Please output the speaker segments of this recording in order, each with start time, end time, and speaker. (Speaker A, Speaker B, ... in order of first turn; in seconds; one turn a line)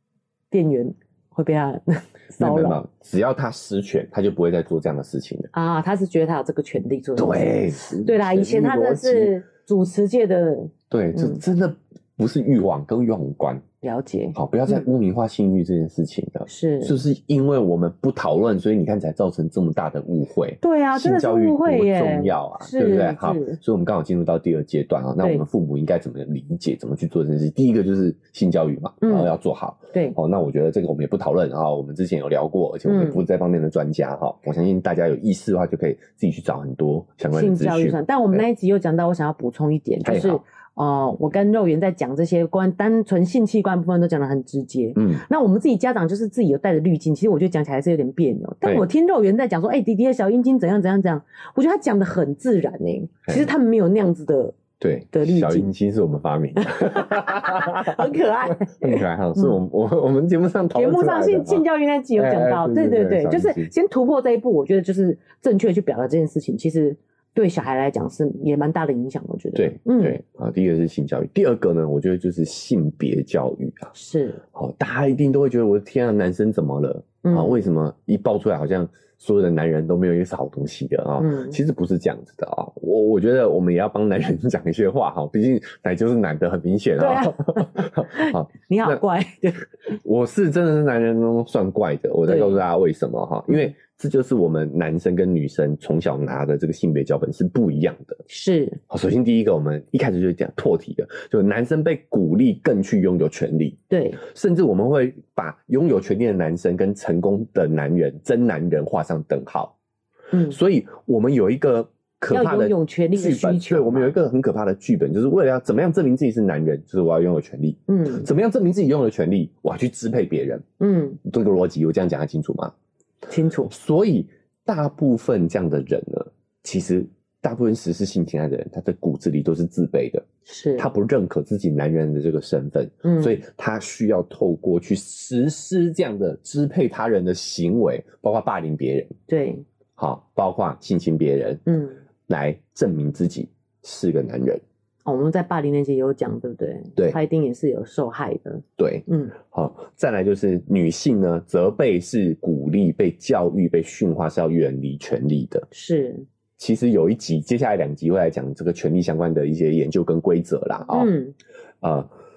Speaker A: 0.5-2.8
Speaker B: 2.4-5.5
Speaker A: 5.5-11.4
Speaker B: 7.2-9.3
Speaker B: 10.9-13.6
Speaker A: 13.8-14.8
Speaker B: 14.3-38.5
Speaker A: 16.5-17.0
Speaker A: 20.6-23.6
Speaker A: 29.0-29.3
Speaker A: 29.9-30.2
Speaker A: 32.9-33.2
Speaker A: 37.3-54.6
Speaker B: 40.0-40.4
Speaker B: 45.0-45.2
Speaker B: 54.8-61.6
Speaker A: 55.1-55.7
Speaker A: 56.6-59.6
Speaker A: 60.7-70.2
Speaker B: 62.2-63.7
Speaker B: 69.5-73.9
Speaker A: 73.9-74.4
Speaker B: 74.5-89.0
Speaker A: 77.2-77.6
Speaker A: 81.2-81.6
Speaker A: 87.0-89.7
Speaker B: 90.0-98.2
Speaker A: 92.3-92.6
Speaker A: 98.3-98.8
Speaker B: 98.9-109.8
Speaker A: 103.9-104.2
Speaker A: 110.3-110.6
Speaker B: 110.5-120.6
Speaker A: 112.3-114.1
Speaker A: 117.9-118.3
Speaker A: 120.8-121.2
Speaker B: 121.2-122.7
Speaker A: 123.3-123.7
Speaker B: 123.7-130.3
Speaker A: 130.5-130.9
Speaker B: 130.8-139.2
Speaker A: 133.0-133.4
Speaker A: 139.3-139.7
Speaker B: 140.0-141.6
Speaker A: 141.7-142.0
Speaker B: 142.3-144.6
Speaker A: 145.1-149.4
Speaker B: 148.8-155.7
Speaker A: 155.7-156.3
Speaker B: 156.6-161.1
Speaker A: 160.9-161.3
Speaker B: 161.8-162.1